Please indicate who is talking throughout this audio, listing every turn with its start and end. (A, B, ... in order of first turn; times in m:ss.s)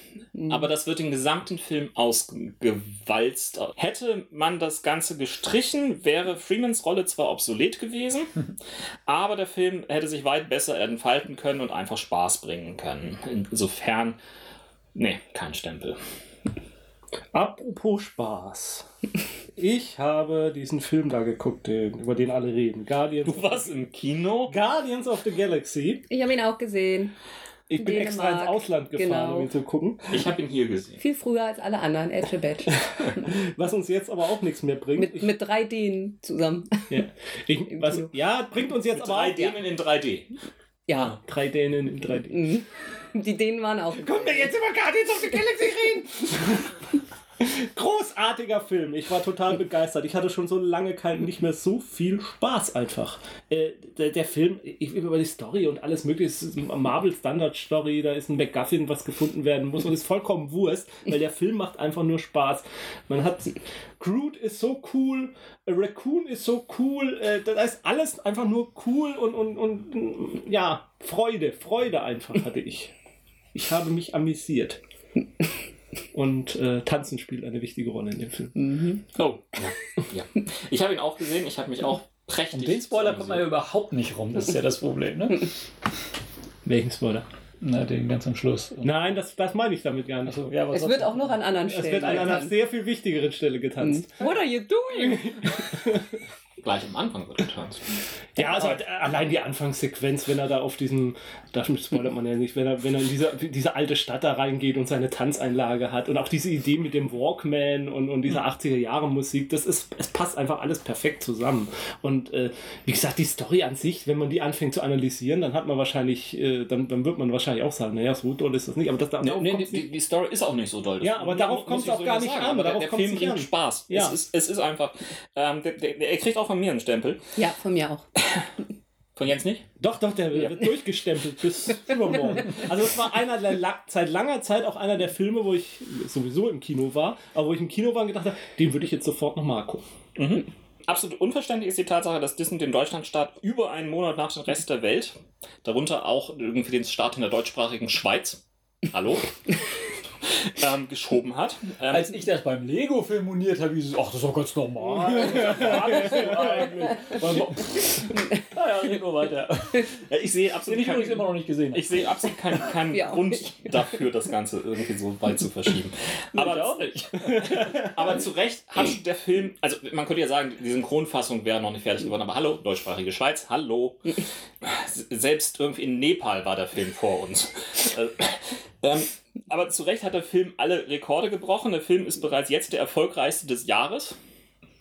0:00.4-0:00.7 A
0:00.4-0:08.5 B
0:09.0-0:14.2 B
0:14.9-0:16.0 B
0:17.3-0:18.9 C
0:19.6-0:23.7 C
0:23.2-0:24.5 B
0:24.5-0:26.1 C
0:26.1-0:27.2 A
0:27.7-0:30.2 C
0:27.8-0:29.5 A
0:30.1-0:31.0 B
0:31.0-0:33.4 A
0:32.8-0:35.3 C
0:35.0-0:37.0 A
0:36.9-0:39.6 C
0:37.7-0:38.1 A
0:39.0-0:40.3 B
0:40.9-0:41.2 A
0:41.2-0:42.5 C
0:42.3-0:44.5 A
0:44.0-0:46.9 C
0:47.4-1:12.9 C
1:13.5-1:14.8 C
1:16.1-1:18.6 C
1:18.6-1:19.0 A
1:19.1-1:23.4 B
1:22.5-1:25.5 D
1:26.6-1:27.2 C
1:27.6-1:29.0 D
1:28.8-1:30.5 C
1:30.2-1:31.4 D
1:30.7-1:32.5 A
1:31.7-1:34.4 C
1:33.8-1:35.5 A
1:34.9-1:36.2 C
1:36.6-1:38.0 B
1:38.4-1:59.9 C
1:59.2-2:07.4 B
2:01.0-2:04.2 C
2:07.4-2:08.0 A
2:09.2-2:09.6 B
2:09.8-2:19.8 C
2:20.2-2:29.6 B
2:30.2-2:32.2 B
2:31.9-2:39.9 D
2:35.0-2:37.7 C
2:40.0-3:04.2 B
2:40.7-2:41.8 D
2:42.9-2:43.4 A
2:46.3-2:47.5 D